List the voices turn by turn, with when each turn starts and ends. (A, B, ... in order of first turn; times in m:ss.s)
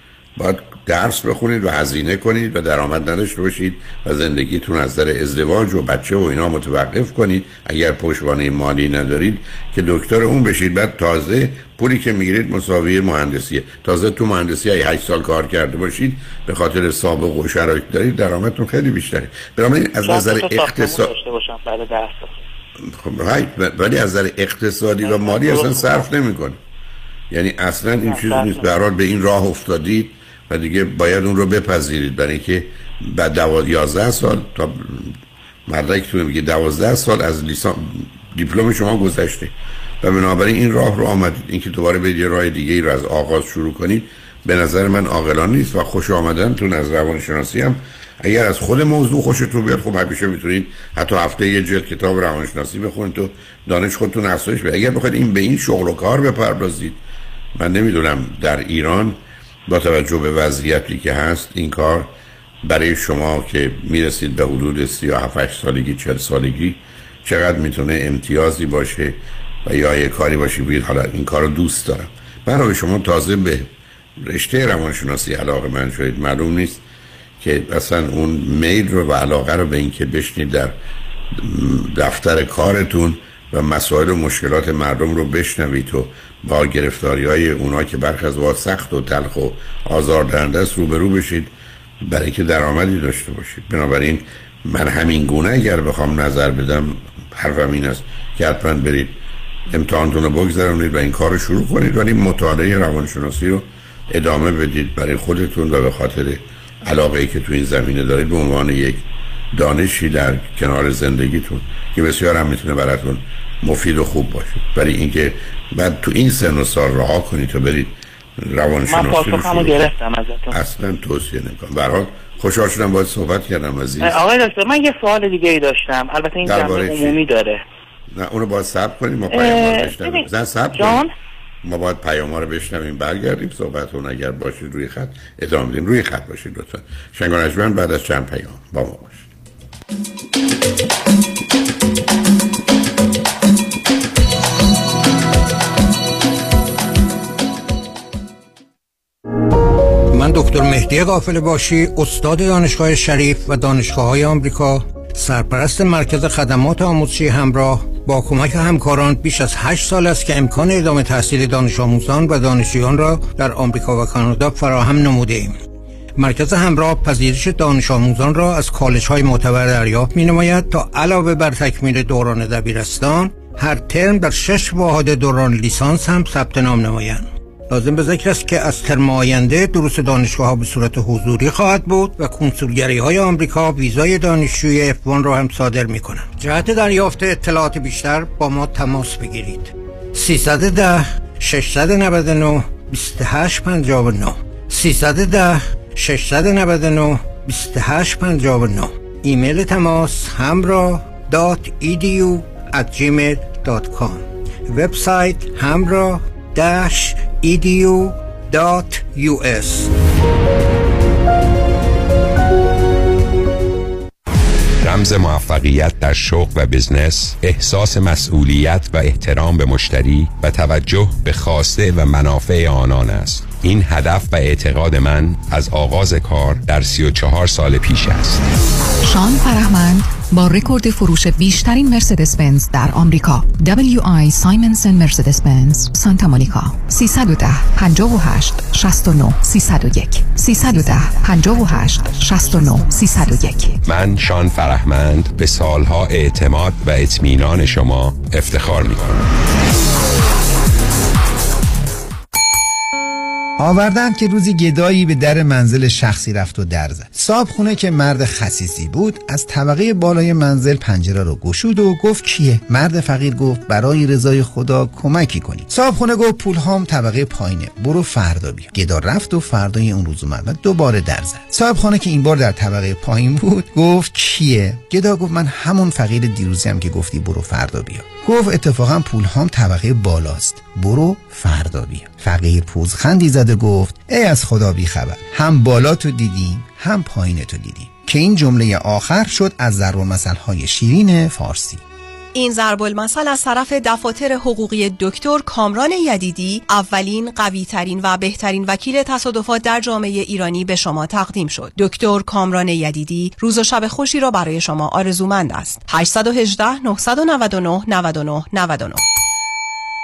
0:00.4-0:21.1 A
0:20.1-0:22.4 B
0:22.8-0:26.6 A
0:25.0-0:26.1 B
0:27.3-0:57.0 A
0:28.0-0:28.7 B
0:57.6-1:02.1 A
1:02.6-1:13.7 A
1:14.2-1:16.8 A
1:17.4-1:20.7 A
1:21.3-1:31.5 A
1:32.0-1:39.1 A
1:39.7-1:59.9 A
1:58.9-2:00.6 B
2:00.5-2:04.2 A
2:04.0-2:07.6 B
2:06.4-2:07.2 A
2:08.1-2:11.0 A
2:09.3-2:11.1 B
2:11.6-2:19.3 A
2:30.1-2:45.6 C
2:46.2-3:29.9 C
3:34.8-3:48.4 D
3:49.0-4:03.8 E
4:03.8-4:09.2 D
4:13.6-4:51.8 F
4:52.3-5:09.0 G